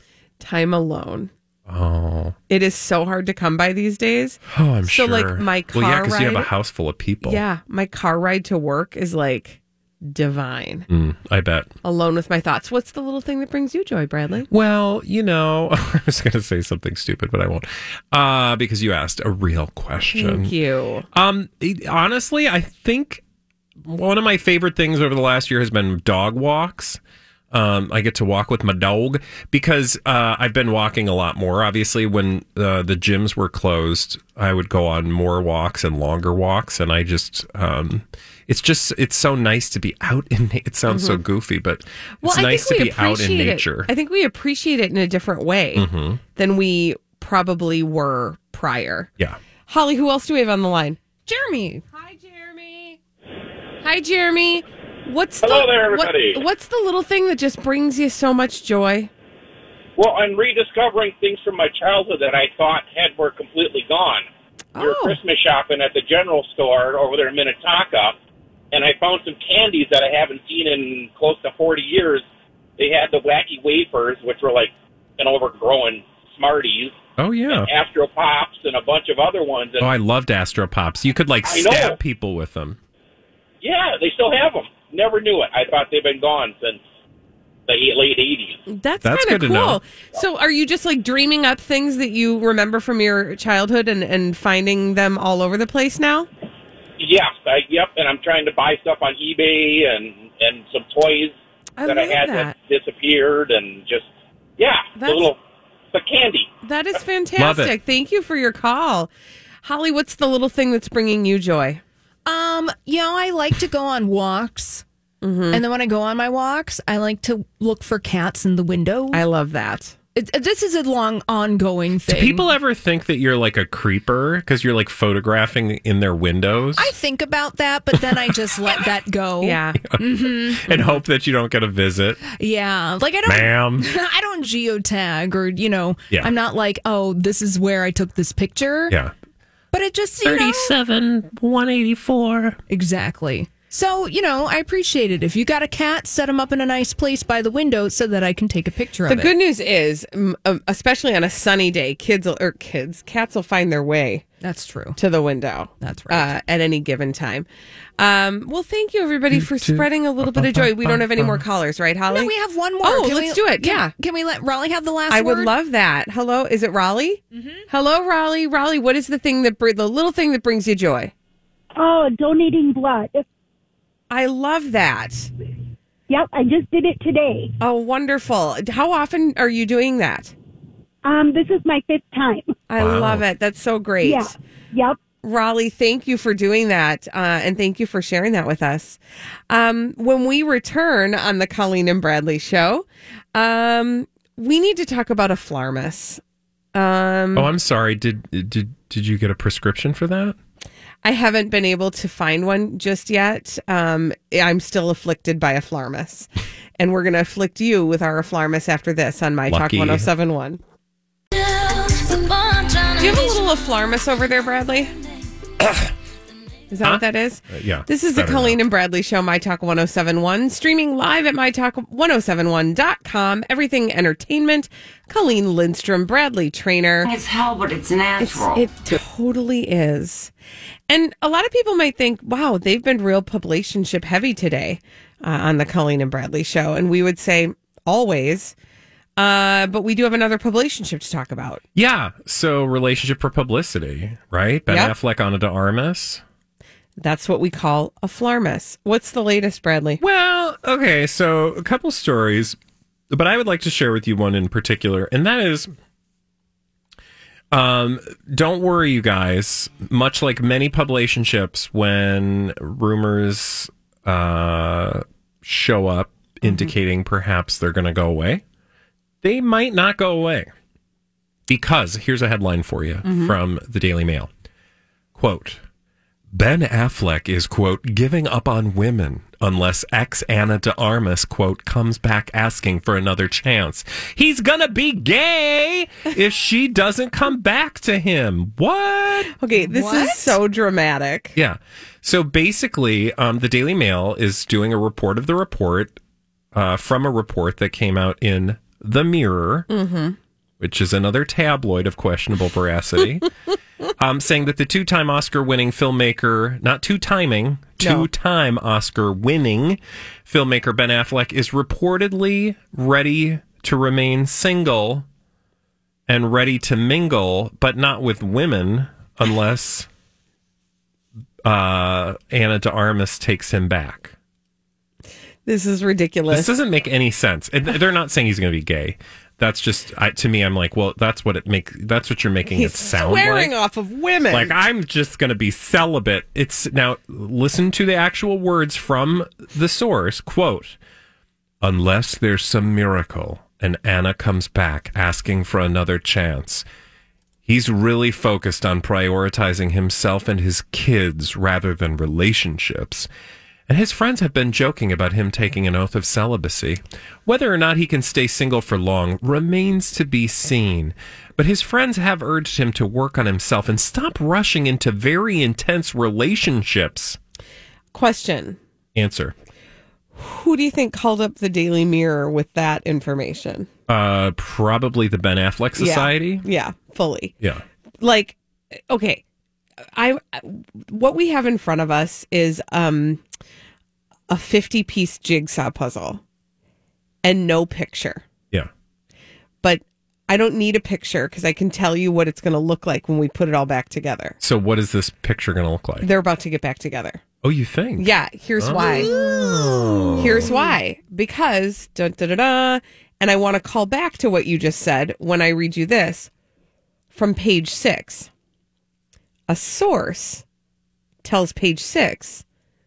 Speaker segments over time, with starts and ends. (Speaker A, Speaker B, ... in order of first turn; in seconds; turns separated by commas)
Speaker A: 0.4-1.3, Speaker B: 1.7-2.4, Speaker A: 2.5-6.5, Speaker B: 4.5-7.4, Speaker A: 7.2-10.8, Speaker B: 10.9-11.7, Speaker A: 11.8-14.5, Speaker B: 14.5-20.5, Speaker A: 20.1-21.1, Speaker B: 21.1-23.2, Speaker B: 23.8-27.0, Speaker B: 27.5-43.9, Speaker A: 40.9-41.2, Speaker A: 42.2-49.1, Speaker B: 45.7-46.2, Speaker A: 49.7-51.0, Speaker C: 51.2-51.8, Speaker A: 51.9-53.0, Speaker A: 53.8-59.1, Speaker D: 55.4-56.5, Speaker D: 60.0-64.2, Speaker A: 64.8-65.2, Speaker D: 64.8-68.2, Speaker D: 68.7-72.2, Speaker D: 72.8-77.0, Speaker B: 77.2-77.7, Speaker D: 77.5-79.9, Speaker B: 79.8-82.8, Speaker D: 81.4-82.0, Speaker D: 83.6-86.8, Speaker D: 87.7-88.6, Speaker A: 88.7-96.3, Speaker B: 89.0-89.8, Speaker D: 97.0-101.3, Speaker A: 101.8-102.5, Speaker D: 101.8-105.4, Speaker A: 105.0-105.3, Speaker D: 105.9-106.5, Speaker A: 106.6-109.1, Speaker B: 107.4-107.7, Speaker A: 109.6-111.8, Speaker C: 112.2-114.8, Speaker A: 115.2-115.6, Speaker C: 115.5-119.2, Speaker A: 119.1-120.0, Speaker C: 120.1-122.4, Speaker B: 122.1-126.9, Speaker C: 126.8-130.8, Speaker A: 129.4-129.8, Speaker B: 129.9-132.2, Speaker C: 132.3-138.9, Speaker B: 133.2-133.9, Speaker C: 139.7-140.7, Speaker B: 140.2-142.6, Speaker C: 142.7-149.3, Speaker A: 149.1-154.2, Speaker C: 154.4-155.0, Speaker A: 155.0-157.4, Speaker C: 155.8-156.3, Speaker A: 158.0-163.9, Speaker B: 159.3-161.4, Speaker C: 162.1-165.5, Speaker A: 165.1-171.1, Speaker C: 167.3-167.6, Speaker E: 171.8-173.2, Speaker A: 174.1-175.3, Speaker E: 176.1-177.5, Speaker A: 177.6-180.3, Speaker E: 181.0-182.5, Speaker A: 182.7-184.3, Speaker B: 182.8-183.2, Speaker E: 184.0-185.0, Speaker A: 185.2-189.0, Speaker A: 189.5-196.2, Speaker A: 196.7-197.5, Speaker B: 197.3-200.3, Speaker A: 201.0-210.6, Speaker B: 209.5-210.1, Speaker A: 213.0-214.9, Speaker A: 216.7-227.1, Speaker B: 216.8-218.6, Speaker F: 227.0-229.0, Speaker A: 228.2-230.3, Speaker A: 230.9-238.5, Speaker A: 239.2-241.6, Speaker B: 241.7-246.2, Speaker A: 244.7-244.9, Speaker A: 247.0-250.0, Speaker B: 250.0-252.6, Speaker B: 253.1-255.7, Speaker B: 257.5-268.4, Speaker A: 266.4-266.7, Speaker B: 269.2-270.5, Speaker B: 271.5-274.3, Speaker A: 273.0-273.3, Speaker B: 275.1-275.6, Speaker B: 276.3-289.3, Speaker A: 289.4-291.4, Speaker C: 289.6-290.4, Speaker B: 291.4-296.0, Speaker B: 296.5-299.7, Speaker A: 299.7-300.2, Speaker B: 300.6-303.3, Speaker B: 304.0-315.0, Speaker A: 307.8-308.1, Speaker B: 316.1-319.9, Speaker B: 321.4-324.1, Speaker A: 325.4-326.5, Speaker B: 326.3-333.5, Speaker A: 332.5-334.5, Speaker B: 334.3-340.8, Speaker B: 341.6-346.6, Speaker B: 347.4-353.1, Speaker B: 353.7-367.2, Speaker A: 367.9-368.6, Speaker B: 368.9-369.3, Speaker A: 370.1-373.7, Speaker B: 373.9-376.4, Speaker A: 375.8-377.3, Speaker A: 378.0-379.2, Speaker A: 379.9-383.2, Speaker A: 384.3-386.2, Speaker A: 387.2-388.2, Speaker A: 389.6-394.4, Speaker B: 394.4-396.1, Speaker A: 396.0-397.2, Speaker B: 397.4-400.5, Speaker A: 398.0-399.1, Speaker A: 400.1-406.3, Speaker A: 407.1-408.3, Speaker A: 409.5-410.4, Speaker A: 411.2-412.4